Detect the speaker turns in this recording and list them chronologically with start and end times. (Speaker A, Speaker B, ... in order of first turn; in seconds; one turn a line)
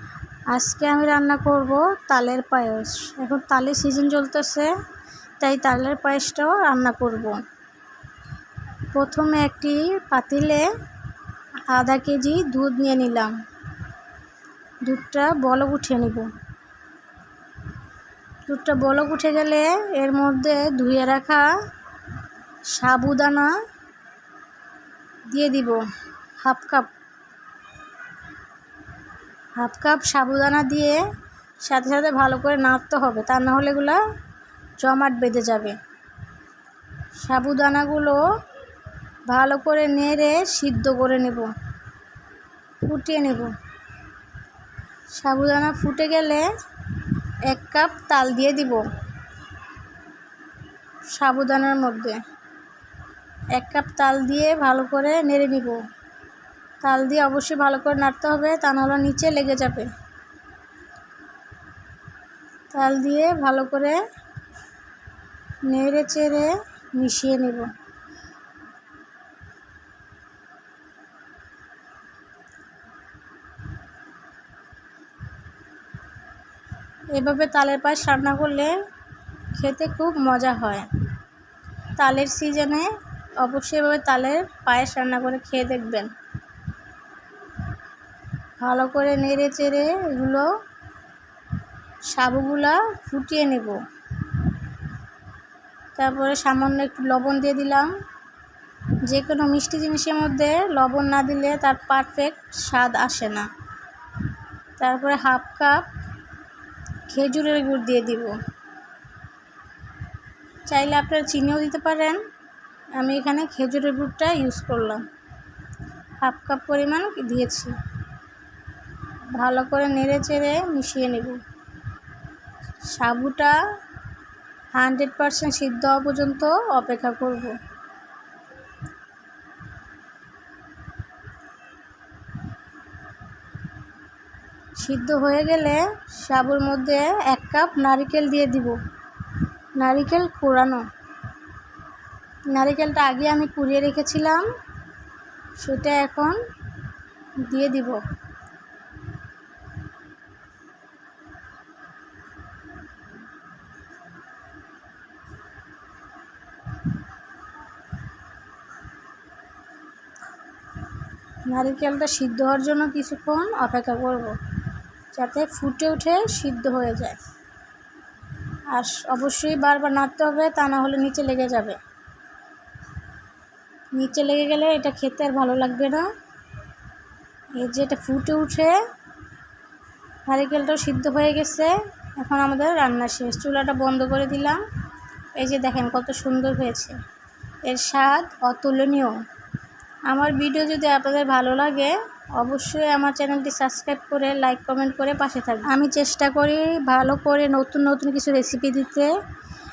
Speaker A: 0.5-4.7
Speaker A: 5.4-7.4
Speaker A: 8.9-10.7
Speaker A: 11.7-13.3
Speaker A: 14.8-16.3
Speaker A: 18.4-21.5
Speaker A: 22.7-23.5
Speaker A: 25.3-25.8
Speaker A: 26.4-26.9
Speaker A: 29.6-31.0
Speaker A: 31.6-34.0
Speaker A: 34.8-35.8
Speaker A: 37.2-38.2
Speaker A: 39.3-41.5
Speaker A: 42.8-43.5
Speaker A: 45.1-46.5
Speaker A: 47.5-48.8
Speaker A: 51.1-52.2
Speaker A: 53.5-55.8
Speaker A: 56.8-59.9
Speaker A: 62.7-64.0
Speaker A: 65.7-67.7
Speaker A: 77.1-78.7
Speaker A: 79.5-80.9
Speaker A: 82.0-86.1
Speaker A: 88.6-90.5
Speaker A: 92.1-93.8
Speaker A: 96.0-97.9
Speaker A: 99.0-103.5
Speaker A: 104.8-105.9
Speaker A: 107.1-108.4
Speaker A: 110.7-112.2
Speaker A: 113.0-115.0
Speaker A: 116.2-117.7
Speaker A: 119.3-121.4
Speaker A: 122.9-123.6
Speaker A: 124.7-127.6
Speaker A: 134.8-138.8
Speaker A: 139.8-140.8
Speaker A: 142.5-144.4
Speaker A: 145.6-146.4
Speaker A: 147.4-148.0
Speaker A: 161.4-164.4
Speaker A: 165.1-167.2
Speaker A: 168.7-171.8
Speaker A: 173.9-176.1
Speaker A: 177.6-178.8
Speaker A: 180.2-184.6
Speaker A: 185.3-187.0
Speaker A: 187.6-189.2
Speaker A: 190.1-199.1